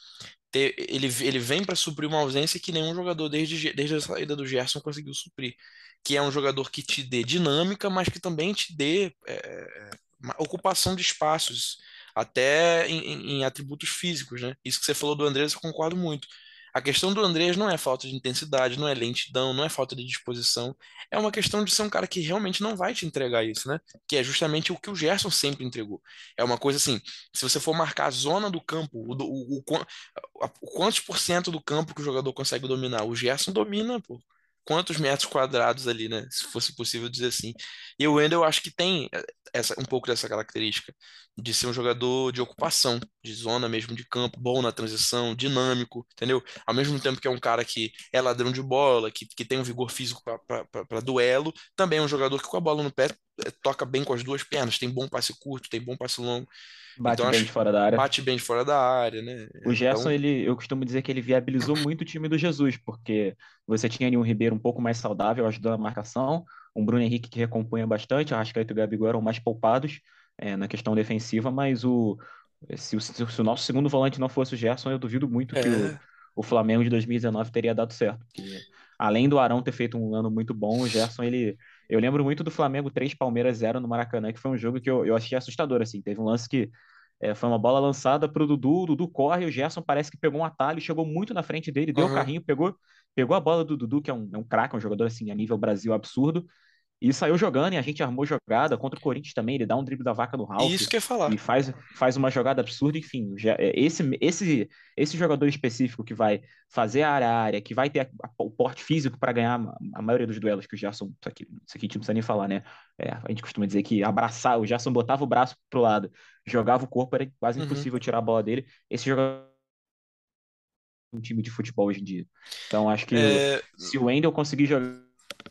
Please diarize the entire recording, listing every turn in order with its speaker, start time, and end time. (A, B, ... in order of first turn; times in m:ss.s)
0:00.5-0:56.5 A
0:57.0-0:58.1 B
0:57.0-1:00.1 A
0:59.6-1:36.5 B
1:15.5-1:16.0 A
1:31.9-1:32.3 A
1:37.0-1:59.5 B
1:40.6-1:41.4 A
1:57.6-1:57.9 A
2:01.1-2:05.1 B
2:03.1-2:03.9 A